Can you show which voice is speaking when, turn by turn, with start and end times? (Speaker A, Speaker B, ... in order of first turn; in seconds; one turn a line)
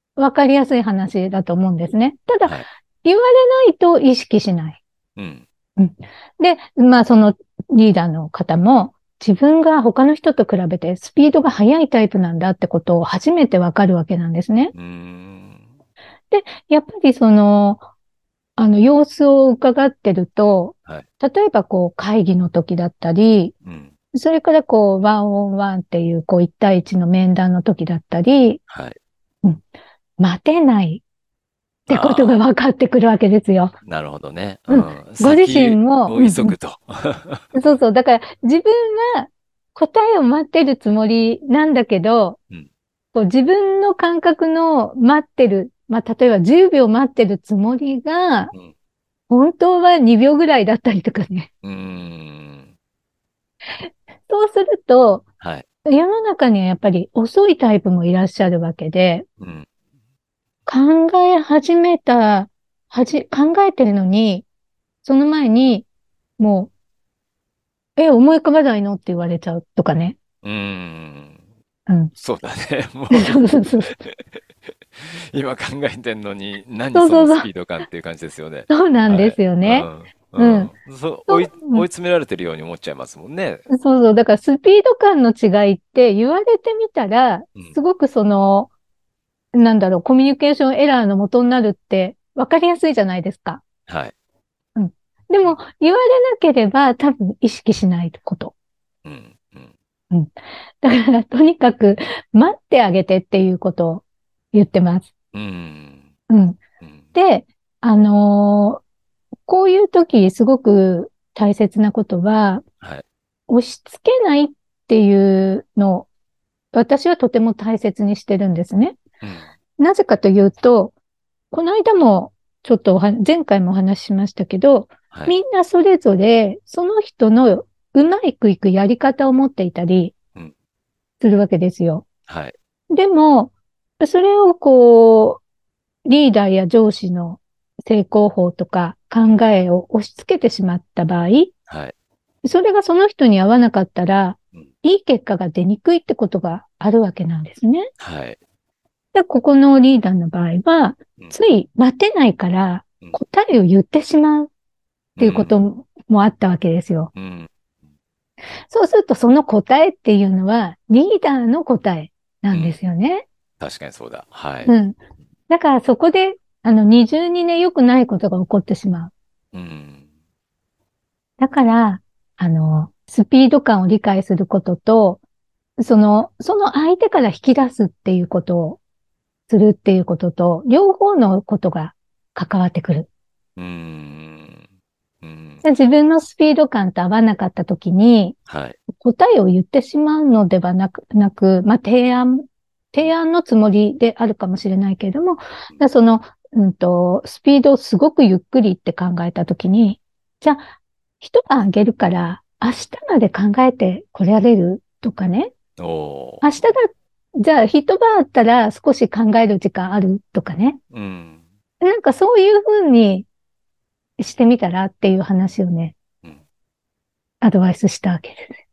Speaker A: 0.2-4.8
Speaker B: 5.2-5.4
Speaker A: 5.8-14.7
Speaker B: 14.7-15.7
Speaker A: 16.3-17.8
Speaker A: 18.6-23.5
Speaker B: 23.6-23.9
Speaker A: 24.1-28.6
Speaker B: 28.7-29.0
Speaker A: 30.2-31.0
Speaker B: 31.9-32.4
Speaker A: 31.9-33.8
Speaker B: 33.9-37.5
Speaker A: 34.7-36.5
Speaker A: 37.5-42.4
Speaker A: 43.1-48.5
Speaker A: 49.3-51.5
Speaker B: 51.6-52.7
Speaker A: 53.8-55.2
Speaker A: 55.9-59.3
Speaker B: 59.4-59.7
Speaker A: 60.7-64.5
Speaker A: 65.0-65.9
Speaker A: 66.4-66.7
Speaker A: 68.0-70.2
Speaker B: 70.4-71.4
Speaker A: 71.9-72.1
Speaker B: 72.2-74.2
Speaker A: 73.1-74.0
Speaker B: 75.0-83.7
Speaker A: 76.9-77.5
Speaker A: 78.7-80.7
Speaker A: 81.3-81.9
Speaker A: 83.7-88.7
Speaker A: 89.5-93.6
Speaker B: 93.9-94.1
Speaker A: 94.8-98.5
Speaker B: 99.0-99.7
Speaker A: 100.1-105.1
Speaker B: 105.3-106.1
Speaker A: 106.3-106.6
Speaker A: 107.2-108.8
Speaker A: 109.5-112.6
Speaker A: 113.5-116.1
Speaker A: 116.7-119.0
Speaker B: 119.2-119.5
Speaker A: 119.8-120.9
Speaker A: 121.5-130.1
Speaker A: 131.2-132.1
Speaker B: 132.3-132.5
Speaker A: 132.9-135.4
Speaker A: 136.1-141.5
Speaker B: 141.7-141.9
Speaker A: 142.4-147.9
Speaker B: 148.0-148.4
Speaker A: 149.1-154.5
Speaker B: 155.2-155.6
Speaker A: 155.2-157.1
Speaker B: 157.2-157.5
Speaker A: 158.7-163.2
Speaker B: 163.6-164.7
Speaker A: 164.7-165.0
Speaker A: 165.5-169.1
Speaker B: 169.5-170.0
Speaker A: 171.4-175.2
Speaker A: 175.8-178.8
Speaker A: 179.5-183.1
Speaker B: 183.6-184.7
Speaker B: 185.2-185.6
Speaker A: 185.6-188.4
Speaker B: 188.5-188.8
Speaker A: 188.9-200.7
Speaker A: 201.2-205.5
Speaker B: 205.8-206.5
Speaker A: 206.4-210.8
Speaker B: 210.9-211.4
Speaker A: 211.8-213.3
Speaker A: 214.2-215.9
Speaker A: 217.4-218.6